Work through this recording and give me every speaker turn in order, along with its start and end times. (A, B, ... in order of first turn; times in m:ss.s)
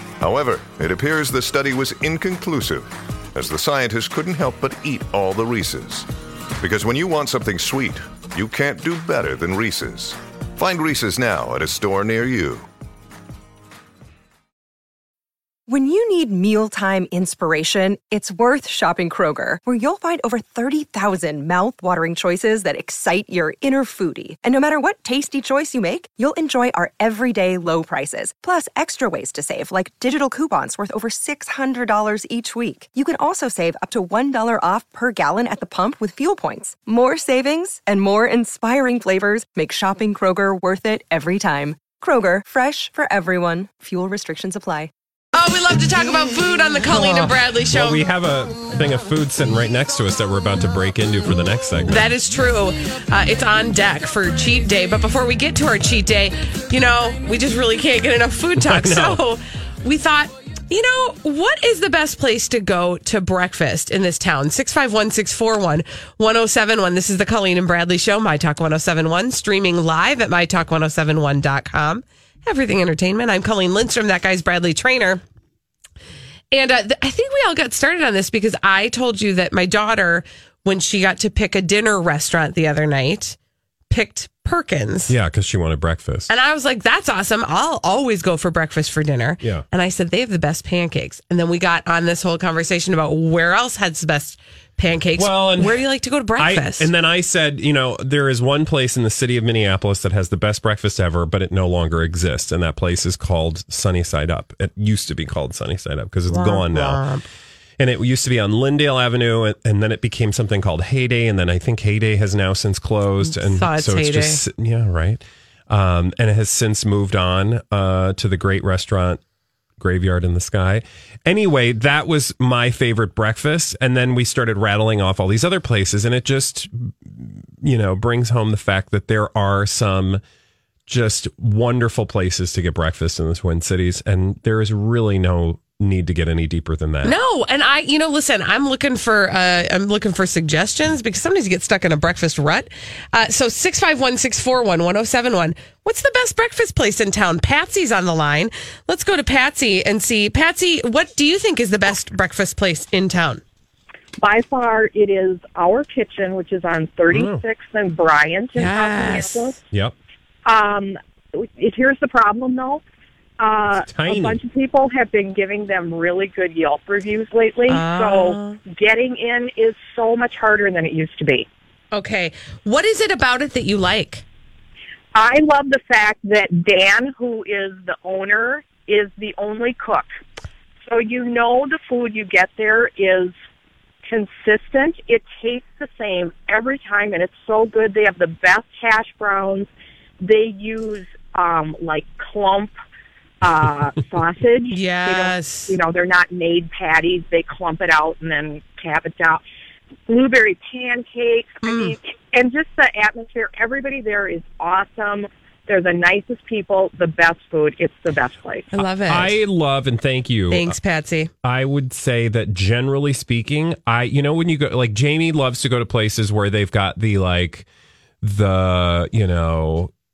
0:00.2-0:06.1 A
0:06.6-0:12.7 A
0:15.7-0:44.9 B
0:45.3-0:48.0 C
0:46.9-0:52.1 D
0:51.9-1:15.2 C
0:58.6-0:59.2 D
1:16.5-1:23.4 C
1:23.9-1:25.2 C
1:25.1-1:26.3 D
1:26.3-1:36.9 C
1:29.4-1:29.7 D
1:35.2-1:35.8 D
1:36.4-1:47.0 D
1:46.3-1:47.3 C
1:47.8-1:59.2 D
1:53.2-1:54.4 C
1:59.8-2:10.2 D
2:10.9-2:17.2 D
2:17.0-2:33.4 C
2:34.2-2:39.6 E
2:37.1-2:37.4 D
2:38.6-2:39.6 C
2:40.4-2:42.8 E
2:43.4-2:51.5 E
2:43.8-2:44.4 D
2:47.7-2:48.6 C
2:51.9-2:54.2 C
2:55.2-3:00.1 E
3:00.8-3:03.3 E
3:04.1-3:09.7 E
3:10.2-3:12.8 E
3:13.4-3:19.4 E
3:14.7-3:15.8 C
3:20.1-3:28.7 E
3:21.6-3:22.0 C
3:28.7-3:29.4 C
3:29.1-3:30.8 D
3:30.5-3:31.3 C
3:31.4-3:37.7 D
3:38.2-3:39.9 D